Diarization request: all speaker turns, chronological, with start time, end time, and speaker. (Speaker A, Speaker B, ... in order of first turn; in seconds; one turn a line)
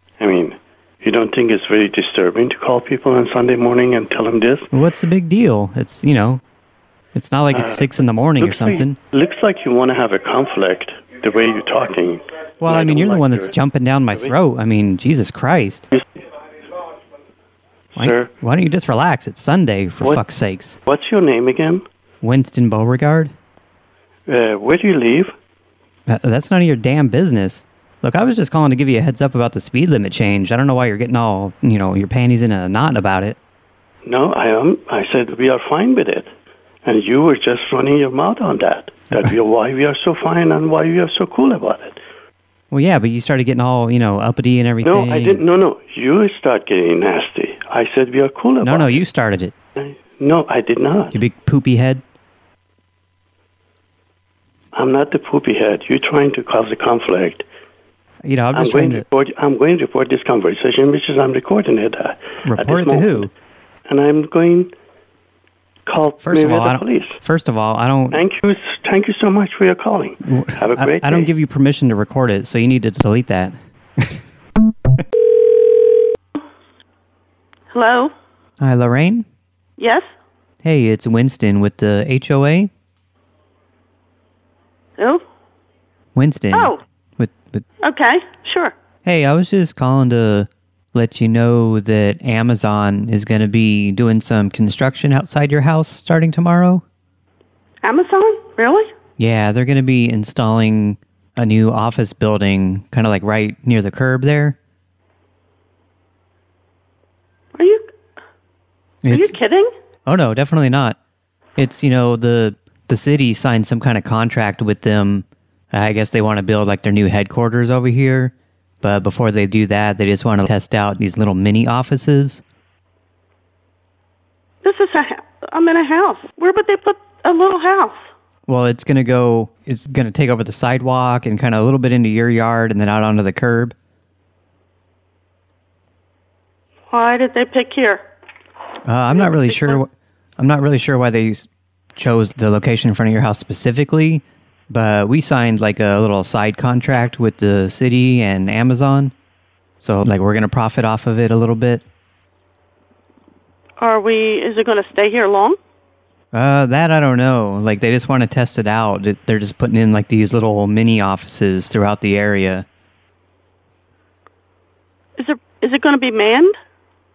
Speaker A: 0.2-4.7
Speaker B: 4.7-6.4
Speaker B: 7.1-9.0
Speaker A: 7.5-13.6
Speaker B: 12.6-15.9
Speaker A: 18.0-18.3
Speaker B: 18.0-20.8
Speaker A: 20.9-21.9
Speaker B: 22.2-23.3
Speaker A: 24.3-25.3
Speaker B: 26.1-33.4
Speaker A: 34.0-36.3
Speaker A: 36.9-42.0
Speaker B: 42.7-45.4
Speaker A: 44.8-49.0
Speaker B: 48.6-49.5
Speaker A: 49.8-51.2
Speaker B: 51.1-52.0
Speaker A: 54.7-57.5
Speaker B: 58.2-59.0
Speaker A: 58.5-63.3
Speaker B: 62.5-63.3
Speaker A: 63.9-64.7
Speaker A: 65.9-67.2
Speaker B: 66.2-68.2
Speaker A: 68.1-71.3
Speaker B: 70.2-74.2
Speaker C: 77.7-78.1
Speaker B: 78.6-79.2
Speaker C: 79.8-80.0
Speaker B: 80.6-82.7
Speaker B: 86.2-87.7
Speaker C: 86.5-86.8
Speaker C: 87.8-88.7
Speaker B: 89.0-96.8
Speaker C: 97.8-98.9
Speaker B: 99.2-104.6
Speaker C: 107.6-107.8
Speaker B: 109.0-109.4
Speaker C: 109.1-109.7
Speaker B: 110.1-111.0
Speaker B: 111.6-122.4
Speaker C: 124.6-128.1
Speaker B: 128.5-133.8
Speaker C: 136.9-138.0
Speaker B: 138.8-149.1
Speaker C: 139.2-139.8
Speaker B: 149.8-151.8
Speaker C: 153.8-155.6
Speaker B: 156.3-162.7
Speaker C: 165.2-166.6